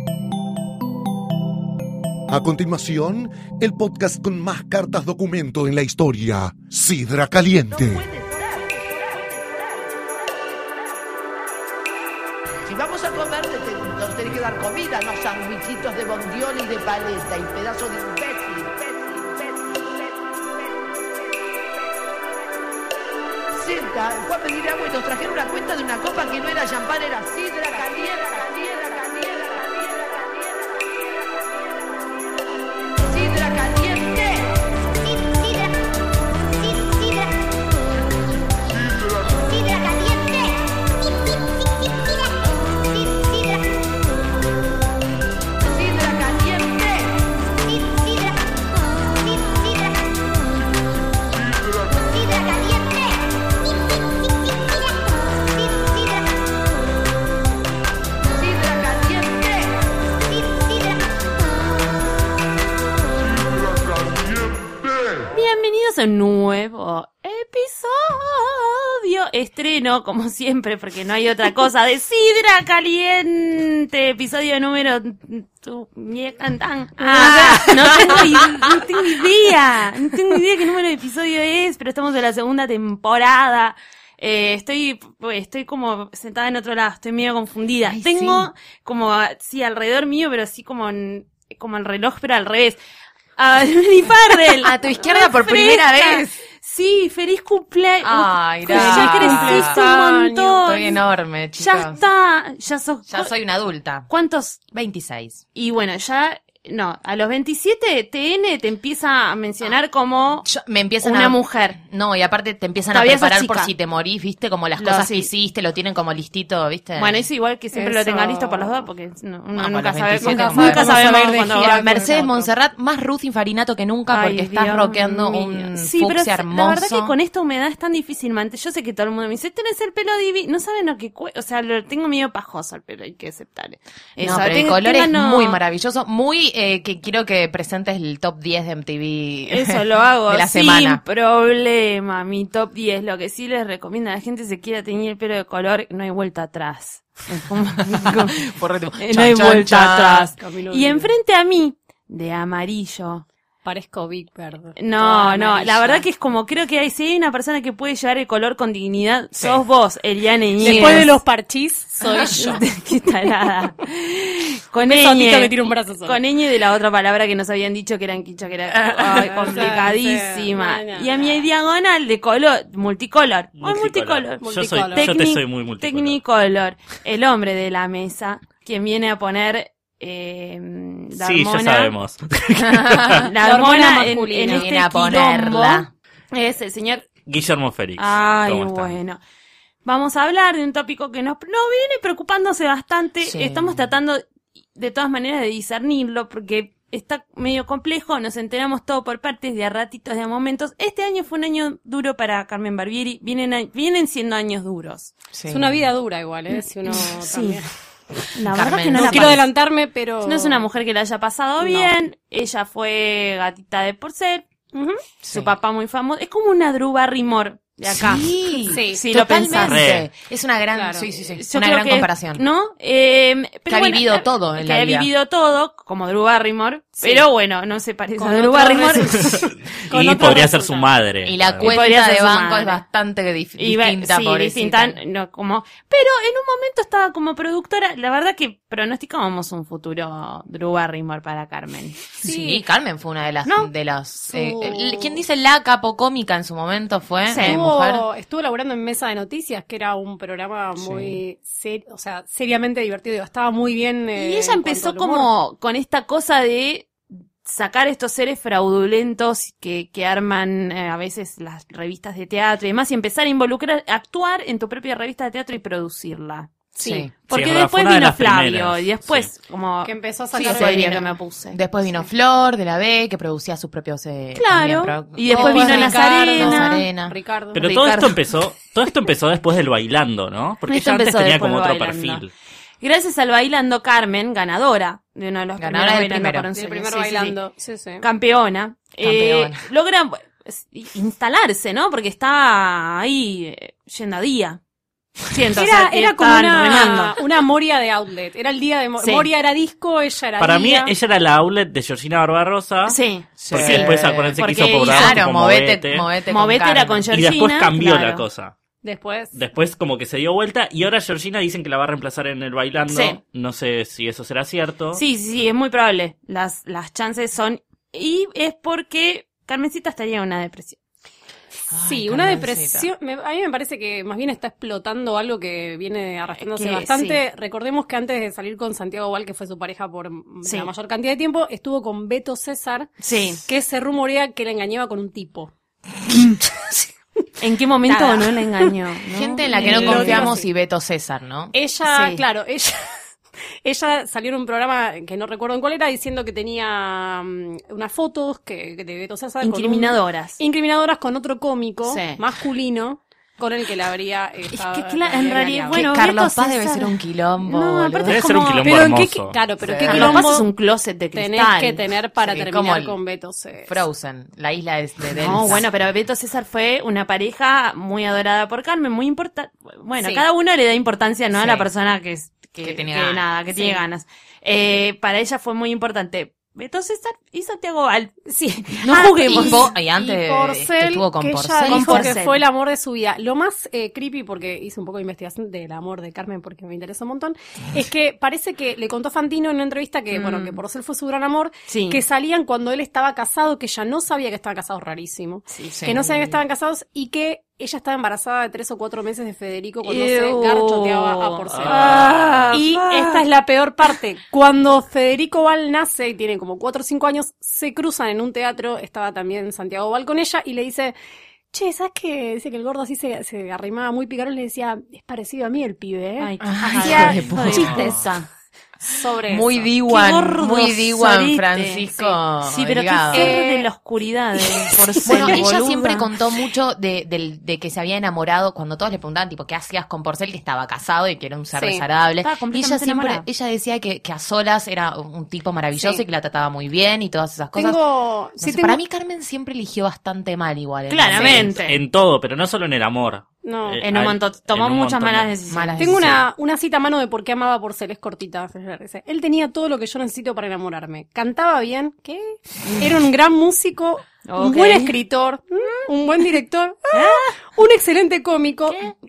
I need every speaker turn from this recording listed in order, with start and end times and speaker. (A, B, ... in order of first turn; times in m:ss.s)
0:02.3-0:08.1 A
0:07.7-0:10.6 B
0:12.6-0:21.6 B
0:23.5-0:31.0 B
0:33.0-0:34.6 B
0:39.1-0:40.4 B
0:45.6-0:47.3 B
0:51.9-0:52.9 B
0:58.3-0:59.8 B
1:05.3-1:32.8 C
1:17.0-1:18.1 D
1:17.1-1:18.4 E
1:27.9-1:28.5 E
1:33.4-1:41.0 C
1:34.6-1:36.4 E
1:38.0-1:39.8 E
1:38.7-1:40.6 D
1:40.6-1:42.0 E
1:41.6-1:43.3 C
1:43.1-1:44.1 E
1:44.1-1:44.6 C
1:44.7-1:45.4 E
1:45.5-1:50.4 C
1:50.4-1:57.2 E
1:51.0-1:51.8 C
1:52.9-1:53.7 C
1:54.8-1:55.3 C
1:57.0-2:02.1 C
1:57.7-1:58.8 D
1:59.6-2:07.2 E
2:00.2-2:02.5 D
2:04.1-2:15.6 C
2:14.2-2:21.0 E
2:19.5-2:28.4 C
2:27.8-2:30.3 E
2:29.0-2:33.2 C
2:30.4-2:31.1 D
2:33.6-2:36.0 D
2:34.8-2:41.2 C
2:40.6-2:42.7 D
2:40.6-2:41.1 E
2:42.2-3:01.9 C
2:44.8-2:46.2 D
2:48.7-2:49.7 E
2:49.1-2:51.4 D
2:53.6-2:56.2 F
2:54.4-2:55.1 D
3:01.2-3:03.3 F
3:02.6-3:03.3 E
3:03.2-3:07.0 C
3:03.4-3:04.7 D
3:04.4-3:05.9 E
3:07.2-3:09.0 F
3:08.0-3:09.2 C
3:09.8-3:14.2 C
3:13.2-3:13.8 E
3:14.7-3:25.1 C
3:25.3-3:25.8 E
3:25.5-3:27.7 D
3:26.5-3:27.6 C
3:28.3-3:29.4 C
3:28.5-3:29.4 E
3:28.9-3:30.6 D
3:30.2-3:34.4 C
3:34.7-3:35.0 D
3:35.2-3:35.5 E
3:35.3-3:39.8 C
3:37.9-3:42.4 E
3:38.7-3:39.0 D
3:39.6-3:40.1 F
3:40.7-3:41.1 D
3:41.4-3:49.4 C
3:43.7-3:45.1 E
3:48.2-3:50.9 D
3:49.2-3:51.7 F
3:51.2-3:55.0 E
3:51.6-3:52.8 C
3:53.6-4:02.1 C
4:02.2-4:08.0 E
4:02.2-4:02.6 D
4:03.4-4:03.7 C
4:04.3-4:05.1 D
4:07.2-4:07.6 C
4:07.4-4:15.3 D
4:10.8-4:11.2 E
4:14.1-4:26.5 C
4:26.8-4:27.1 D
4:26.8-4:27.1 E
4:27.3-4:31.6 C
4:27.3-4:29.3 F
4:29.8-4:31.1 D
4:30.3-4:37.1 E
4:34.3-4:36.8 C
4:35.3-4:37.7 D
4:37.5-4:42.3 F
4:37.6-4:38.2 C
4:40.7-4:42.2 C
4:42.8-4:47.4 C
4:45.6-4:46.4 E
4:46.5-4:48.0 D
4:48.0-4:54.6 C
4:49.0-4:49.6 E
4:55.3-4:57.2 C
4:55.5-5:00.9 D
4:59.0-4:59.3 C
5:00.4-5:03.0 F
5:02.9-5:05.2 C
5:03.4-5:07.1 E
5:03.5-5:06.0 F
5:06.3-5:08.2 C
5:07.1-5:08.5 F
5:08.8-5:09.3 D
5:09.3-5:15.0 F
5:12.9-5:13.2 C
5:14.9-5:20.8 C
5:21.7-5:22.9 E
5:21.8-5:32.9 D
5:26.4-5:27.2 C
5:30.4-5:30.7 C
5:33.0-5:33.4 C
5:33.5-5:35.5 D
5:37.4-5:40.4 C
5:37.9-5:38.7 D
5:39.1-5:41.5 E
5:39.5-5:40.4 D
5:41.5-5:42.8 D
5:41.8-5:42.2 C
5:43.6-5:55.9 D
5:49.4-5:50.4 C
5:51.8-5:52.2 C
5:54.5-5:58.7 C
5:55.7-5:58.2 E
5:58.0-5:59.4 F
5:58.6-6:00.5 D
5:59.6-6:00.2 E
5:59.8-6:01.8 C
6:01.1-6:03.8 D
6:02.2-6:03.0 E
6:03.6-6:05.6 E
6:05.1-6:19.7 C
6:10.0-6:10.2 D
6:11.3-6:11.7 E
6:12.5-6:13.3 E
6:13.5-6:13.8 D
6:18.3-6:50.9 D
6:18.8-6:22.2 E
6:21.6-6:22.4 C
6:30.1-6:30.6 C
6:31.7-6:32.0 C
6:35.5-6:36.3 C
6:35.7-6:36.3 E
6:39.8-6:43.2 C
6:41.5-6:42.6 F
6:51.5-6:58.0 D
6:56.2-6:58.3 C
6:56.4-6:58.0 E
6:56.9-6:58.0 F
6:58.8-6:59.7 D
6:58.9-7:03.4 E
6:59.8-7:06.1 C
7:03.1-7:03.7 D
7:05.0-7:17.8 E
7:05.0-7:05.4 D
7:11.6-7:11.8 D
7:12.2-7:13.2 C
7:15.8-7:16.0 D
7:17.6-7:18.8 D
7:18.4-7:21.6 E
7:20.9-7:21.8 C
7:21.2-7:25.3 F
7:23.4-7:23.8 D
7:23.8-7:25.8 C
7:25.5-7:26.2 E
7:25.8-7:38.9 D
7:26.0-7:26.2 F
7:34.2-7:35.0 C
7:36.9-7:37.3 C